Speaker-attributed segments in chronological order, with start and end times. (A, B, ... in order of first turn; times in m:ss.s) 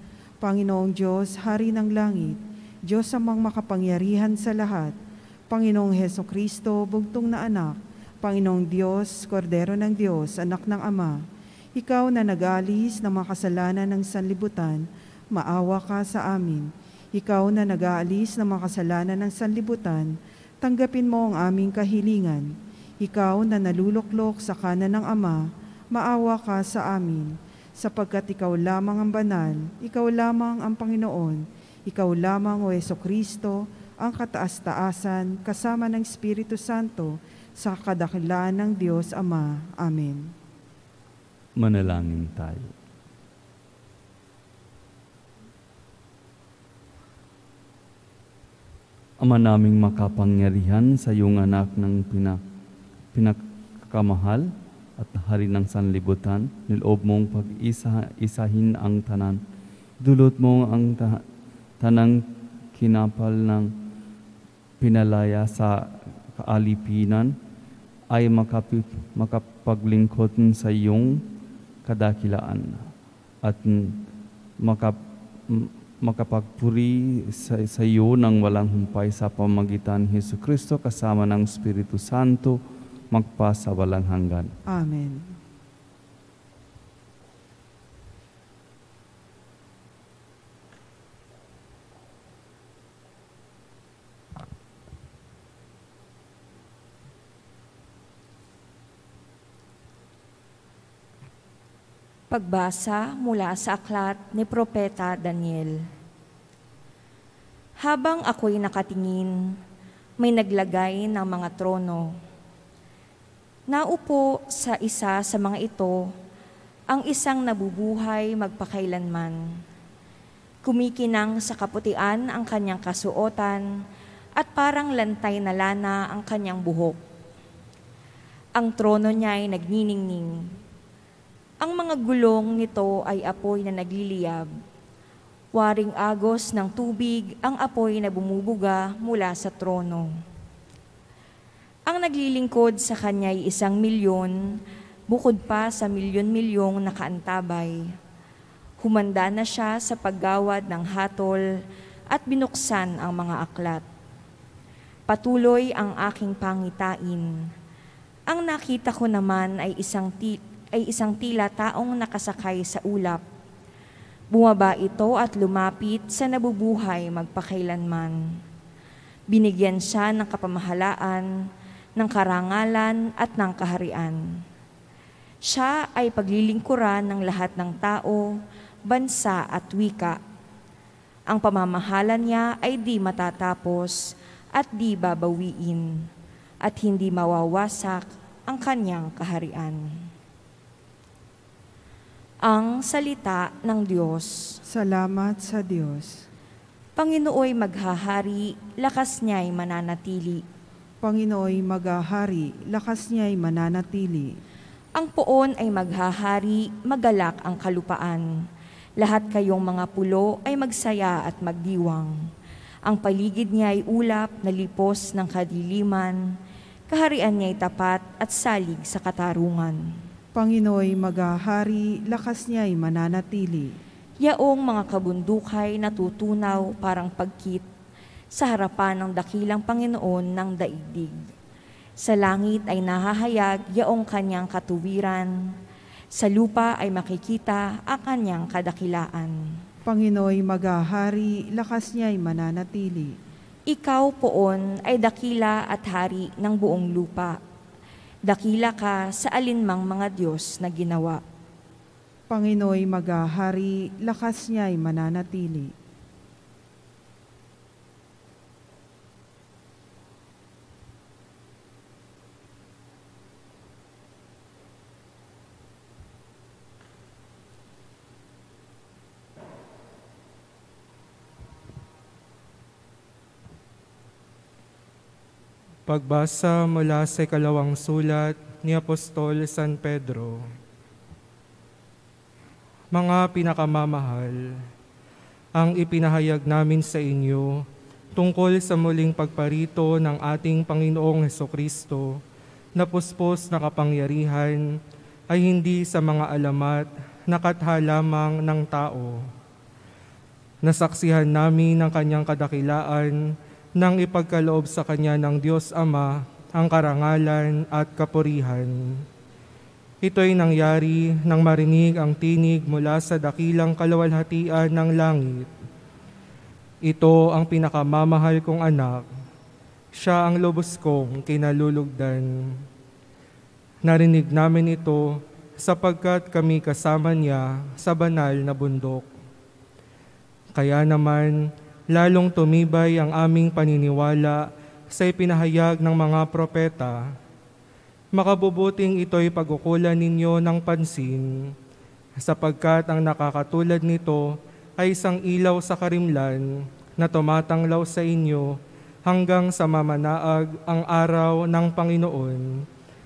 0:00.4-0:04.9 A
0:05.5-0:11.2 A
0:11.8-0:20.1 A
0:20.6-0:22.5 A
0:23.0-0:40.3 A
0:41.6-0:42.7 B
0:49.2-0:52.4 B
0:53.1-0:59.4 B
1:00.0-1:01.2 B
1:01.8-1:03.8 B
1:04.8-1:07.4 B
1:08.1-1:11.3 B
1:11.8-1:14.0 B
1:14.6-1:24.5 B
1:24.7-1:25.4 A
1:42.3-1:45.8 C
1:47.8-1:49.3 C
1:50.2-1:52.1 C
1:53.7-1:56.1 C
1:56.9-1:59.4 C
2:00.6-2:03.6 C
2:04.4-2:07.0 C
2:08.5-2:10.5 C
2:11.6-2:14.5 C
2:15.5-2:20.1 C
2:21.9-2:24.4 C
2:25.1-2:27.8 C
2:28.8-2:31.4 C
2:32.1-2:33.8 C
2:35.1-2:37.3 C
2:38.3-2:43.2 C
2:44.3-2:48.2 C
2:49.3-2:51.3 C
2:52.0-2:54.2 C
2:55.4-3:00.2 C
3:01.3-3:06.1 C
3:06.6-3:10.0 C
3:12.4-3:14.6 C
3:14.7-3:16.3 A
3:17.0-3:20.4 C
3:21.0-3:24.3 A
3:25.0-3:28.3 C
3:29.0-3:32.1 C
3:32.8-3:36.2 C
3:36.9-3:39.8 C
3:40.4-3:43.8 A
3:44.2-3:47.6 C
3:48.3-3:51.2 C
3:52.0-3:55.5 C
3:56.1-3:59.4 C
3:59.9-4:03.2 A
4:03.7-4:07.4 C
4:08.2-4:11.2 C
4:12.3-4:15.7 A
4:35.8-4:40.5 D
4:42.9-4:44.5 D
4:45.5-4:47.6 D
4:48.2-4:52.2 D
4:52.8-4:54.6 D
4:55.3-4:59.3 D
5:00.6-5:03.2 D
5:03.8-5:09.0 D
5:10.0-5:15.5 D
5:16.8-5:19.0 D
5:19.9-5:22.6 D
5:23.8-5:29.1 D
5:30.5-5:37.0 D
5:38.1-5:41.5 D
5:42.2-5:44.2 D
5:44.8-5:52.6 D